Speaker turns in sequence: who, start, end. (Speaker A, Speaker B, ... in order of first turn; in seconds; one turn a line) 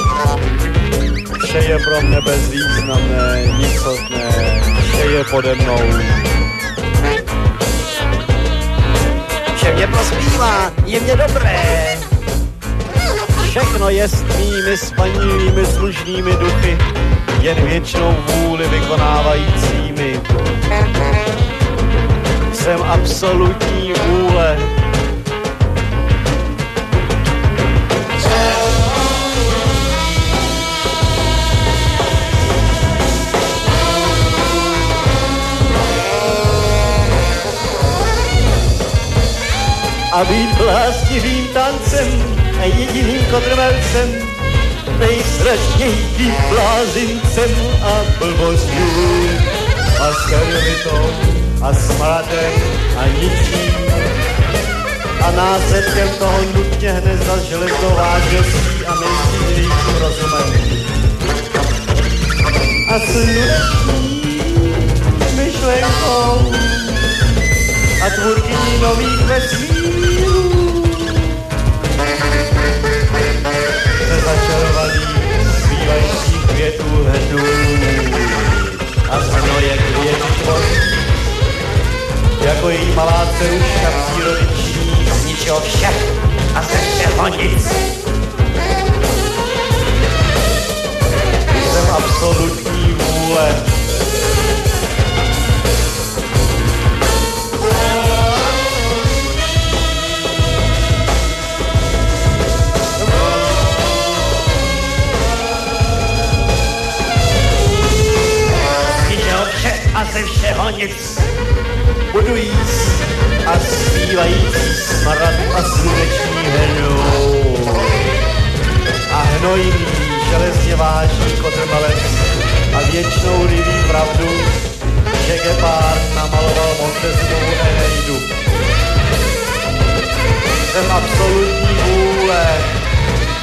Speaker A: 1.4-6.3
Speaker A: 9.5-12.1
Speaker A: 13.4-16.9
Speaker A: 17.4-20.3
Speaker A: 22.5-24.7
Speaker A: 40.1-44.4
Speaker A: 44.9-54.1
Speaker A: 55.2-60.9
Speaker A: 62.9-67.1
Speaker A: 68.0-71.3
Speaker A: 74.0-81.1
Speaker A: 82.4-87.8
Speaker A: 91.5-93.7
Speaker A: 103.0-103.4
Speaker A: 109.0-111.3
Speaker A: 112.1-118.0
Speaker A: 119.1-124.6
Speaker A: 125.1-128.3
Speaker A: 130.6-132.8